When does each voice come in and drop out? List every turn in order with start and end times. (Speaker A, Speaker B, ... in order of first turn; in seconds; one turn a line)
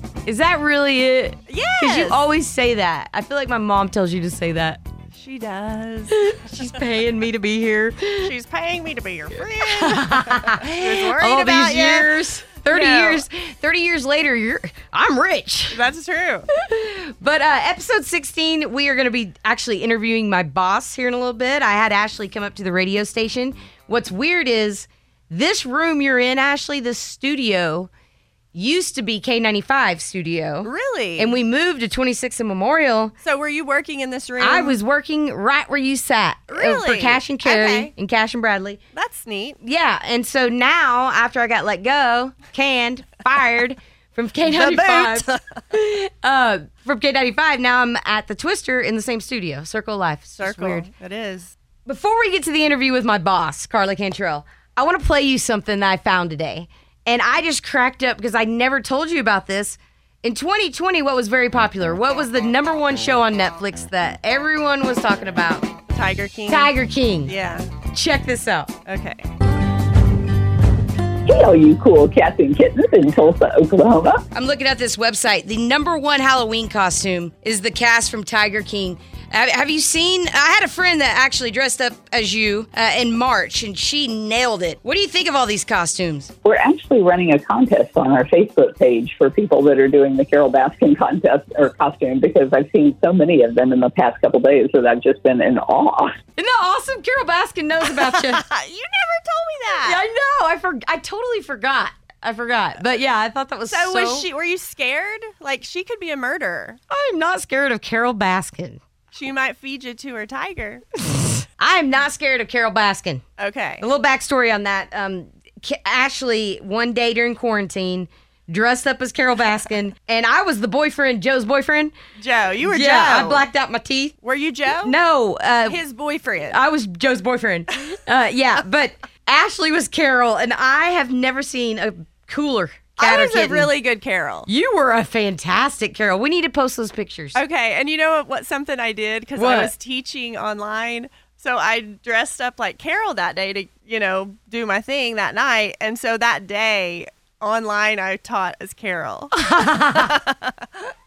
Speaker A: 0.2-4.8
Speaker B: 1.5-2.2
Speaker B: 5.1-6.1
Speaker A: 6.1-8.3
Speaker B: 8.2-13.2
Speaker A: 9.6-15.8
Speaker B: 15.7-16.4
Speaker A: 16.5-27.9
Speaker A: 28.5-33.1
Speaker B: 30.6-31.4
Speaker B: 33.2-34.8
Speaker A: 34.4-38.8
Speaker B: 36.5-37.9
Speaker B: 38.9-39.6
Speaker A: 39.6-50.9
Speaker B: 44.4-45.4
Speaker B: 50.4-51.5
Speaker A: 51.9-65.7
Speaker B: 65.9-66.7
Speaker A: 66.5-67.3
Speaker B: 67.2-67.6
Speaker A: 67.9-68.7
Speaker B: 68.8-69.2
Speaker C: 71.2-74.2
Speaker A: 74.3-86.3
Speaker C: 86.4-96.1
Speaker A: 96.4-98.4
Speaker B: 97.9-100.0
Speaker A: 99.8-104.2
Speaker B: 103.7-106.8
Speaker A: 106.9-108.8
Speaker B: 109.1-110.8
Speaker A: 111.1-113.2
Speaker B: 113.4-113.8
Speaker A: 113.8-121.9
Speaker B: 122.2-123.5
Speaker A: 122.6-124.1
Speaker B: 124.2-124.9
Speaker A: 124.7-125.8
Speaker B: 125.6-126.6
Speaker A: 126.5-133.7
Speaker B: 133.0-134.5
Speaker A: 134.5-137.4
Speaker B: 137.3-149.3
Speaker A: 139.4-139.7
Speaker A: 149.3-150.2
Speaker B: 149.9-150.5